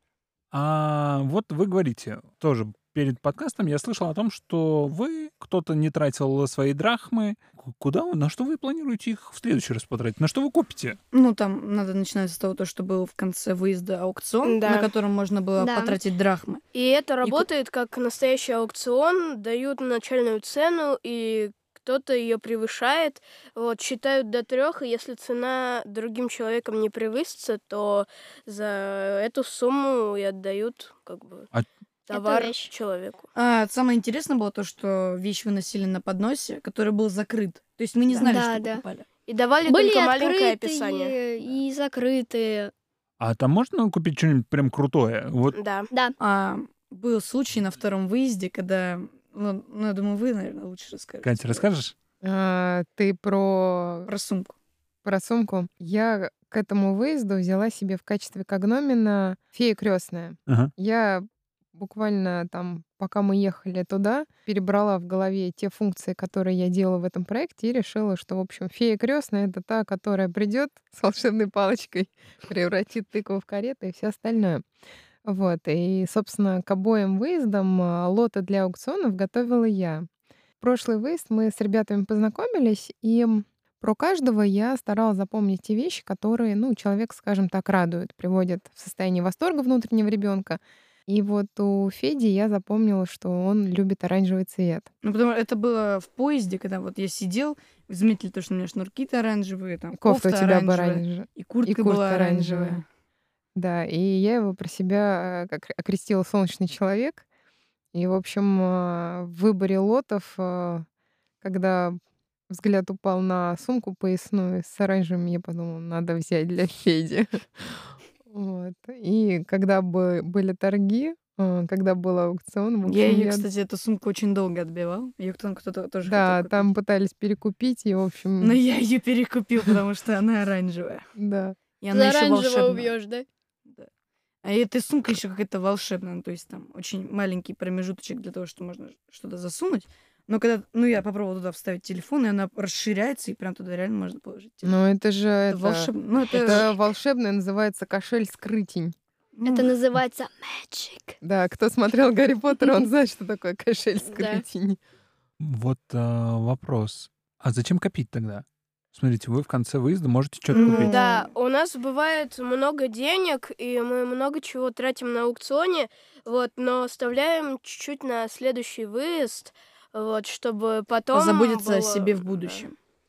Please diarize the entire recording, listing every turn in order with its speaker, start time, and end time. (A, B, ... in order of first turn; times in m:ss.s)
0:00.5-0:11.0 A
0:11.1-0:16.6 B
0:14.4-0:14.9 C
0:15.6-0:16.0 D
0:16.7-0:31.5 C
0:32.1-0:33.3 C
0:32.1-0:32.7 D
0:33.4-0:39.1 B
0:38.2-0:38.8 D
0:39.3-0:41.2 C
0:39.7-0:42.7 D
0:43.2-0:45.6 A
0:45.5-0:45.9 C
0:46.2-0:51.7 B
0:51.2-0:51.9 A
0:52.2-0:54.1 E
0:54.1-0:54.6 B
0:55.0-1:14.6 E
1:00.5-1:00.7 A
1:15.2-1:20.1 E
1:20.6-1:34.9 E
1:35.0-1:42.8 B
1:39.9-1:42.8 E
1:43.6-1:47.2 E
1:47.9-1:50.8 E
1:51.4-1:52.0 E
1:52.5-2:03.4 E
2:02.9-2:06.7 B
2:06.0-2:08.6 E
2:08.4-2:11.1 B
2:11.2-2:11.6 E
2:11.8-2:12.9 B
2:11.9-2:13.2 D
2:14.4-2:24.7 B
2:24.6-2:28.9 E
2:25.5-2:26.7 B
2:29.4-2:29.7 B
2:29.4-2:31.2 D
2:31.2-2:34.8 E
2:34.1-2:34.4 D
2:35.4-2:41.0 A
2:40.5-2:41.3 B
2:40.5-2:52.6 C
2:51.1-2:52.7 B